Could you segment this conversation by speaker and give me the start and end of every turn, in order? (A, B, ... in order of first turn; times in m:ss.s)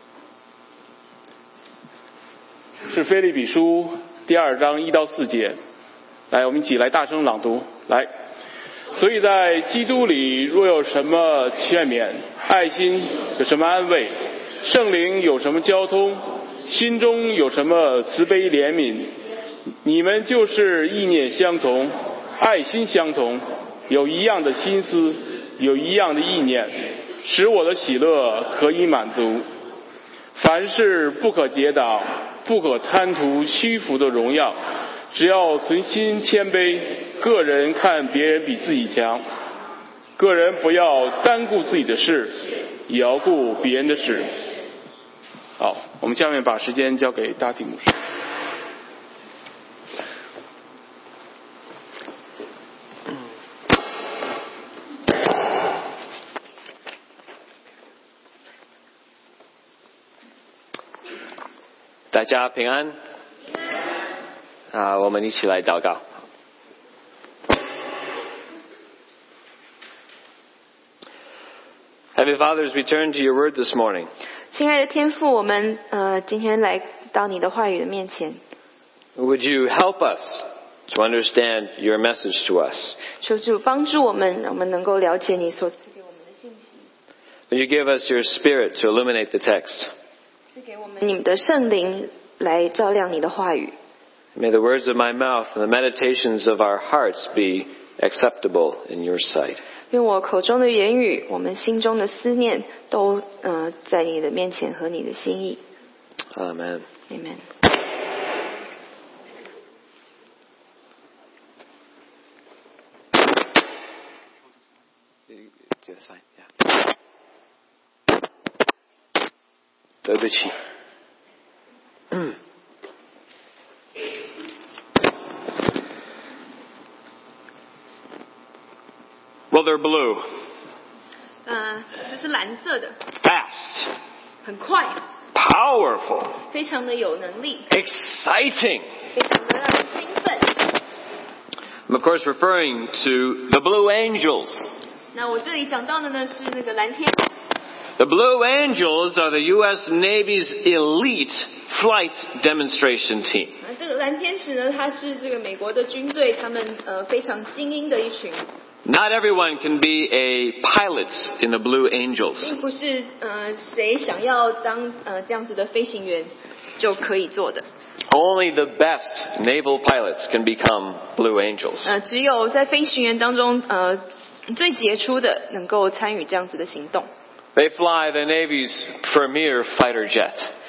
0:02.9-0:05.6 A
0:06.3-0:08.1 A
0:08.9-0:19.1 A
0:19.8-0:29.5 A
0:30.4-0:34.6 A
0:35.1-0:39.2 A
0:40.2-0:44.3 A
0:45.6-0:48.0 A
1:02.1-1:03.0 B
1:04.7-1:06.0 B
1:12.1-1:14.1 B
1:14.5-1:18.4 C
1:19.2-1:23.0 B
1:23.2-1:26.9 C
1:27.5-1:29.9 B
1:30.5-1:33.8 C
1:34.3-1:39.6 B
1:39.9-1:45.6 C
1:46.3-1:46.9 B
1:47.1-1:47.4 C
1:55.3-1:56.4 B
2:00.0-2:00.5 B
2:09.5-2:10.3 B
2:11.4-2:13.0 C
2:13.2-2:13.9 B
2:14.4-2:15.0 C
2:15.3-2:16.4 B
2:16.5-2:17.7 C
2:17.7-2:18.8 B
2:19.1-2:20.7 C
2:21.9-2:24.7 B
2:25.1-2:27.3 C
2:28.0-2:33.6 B
2:33.6-2:38.4 C
2:38.8-2:42.5 B
2:42.4-2:47.6 C
2:48.1-2:51.9 B
2:51.8-2:57.1 C
2:57.5-3:00.5 B